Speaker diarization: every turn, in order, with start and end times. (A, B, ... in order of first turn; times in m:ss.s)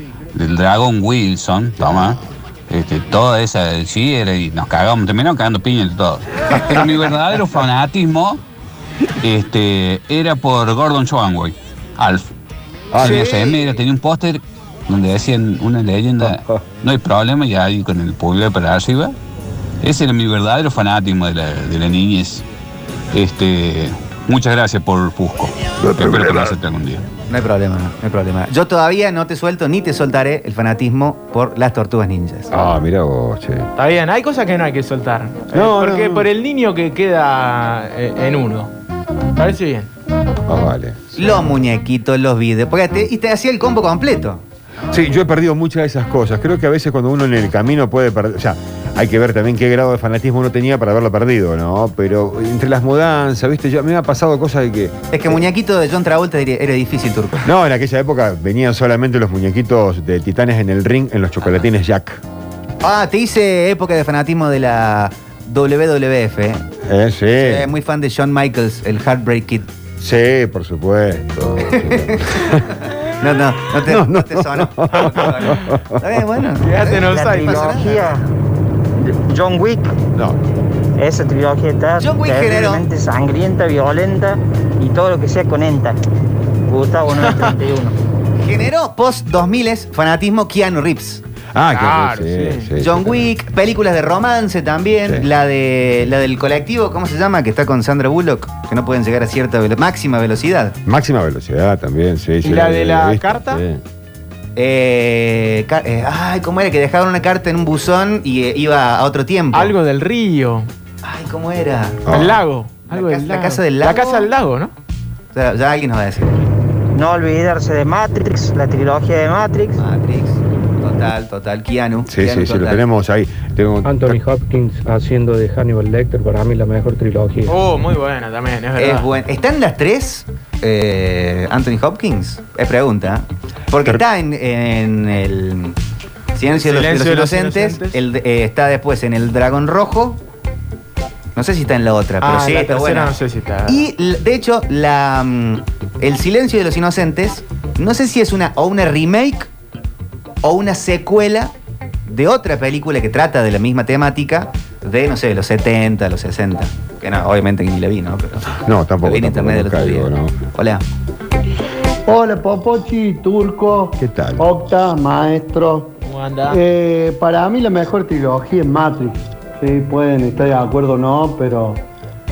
0:00.3-0:08.4 A
0:01.8-0:02.2 B
0:09.2-0:12.3 A
0:12.9-0:19.1 A
0:12.9-0:13.2 B
0:13.0-0:13.7 C
0:16.2-0:16.6 B
0:19.8-0:22.4 A
0:23.1-0:27.0 A
0:25.8-0:26.6 B
0:27.3-0:32.5 C
0:32.5-0:33.7 B
0:33.8-0:38.7 D
0:35.5-0:36.3 B
0:39.4-0:39.9 D
0:40.5-0:41.1 B
0:41.1-0:44.4 C
0:44.9-0:55.4 B
0:55.1-0:57.5 C
0:57.4-1:02.2 B
1:02.8-1:06.6 C
1:06.8-1:07.7 B
1:07.4-1:09.6 C
1:10.0-1:12.7 B
1:11.6-1:18.2 C
1:13.8-1:16.2 B
1:16.6-1:17.9 D
1:17.1-1:18.2 E
1:19.0-1:19.9 E
1:21.0-1:26.0 E
1:22.0-1:22.9 C
1:26.7-1:27.9 E
1:27.1-1:27.6 D
1:28.4-1:31.2 C
1:31.5-1:33.3 B
1:31.7-1:32.7 D
1:32.8-1:40.7 C
1:40.8-1:43.8 B
1:42.4-1:43.6 D
1:44.6-1:49.7 C
1:49.5-1:50.7 D
1:51.0-1:52.2 C
1:52.0-1:52.4 B
1:52.1-1:54.7 D
1:52.9-1:54.3 C
1:55.3-1:56.4 C
1:56.9-1:59.8 E
1:59.7-2:02.8 C
2:02.1-2:04.2 B
2:03.8-2:07.6 F
2:07.5-2:09.1 D
2:08.8-2:15.8 C
2:16.3-2:20.2 C
2:16.5-2:18.0 D
2:21.4-2:23.1 C
2:22.2-2:23.8 D
2:23.7-2:29.5 C
2:30.4-2:31.5 C
2:32.0-2:38.5 C
2:38.5-2:40.4 B
2:39.0-2:40.8 C
2:42.1-2:45.9 G
2:44.0-2:44.4 B
2:46.0-2:46.6 D
2:46.5-2:51.8 G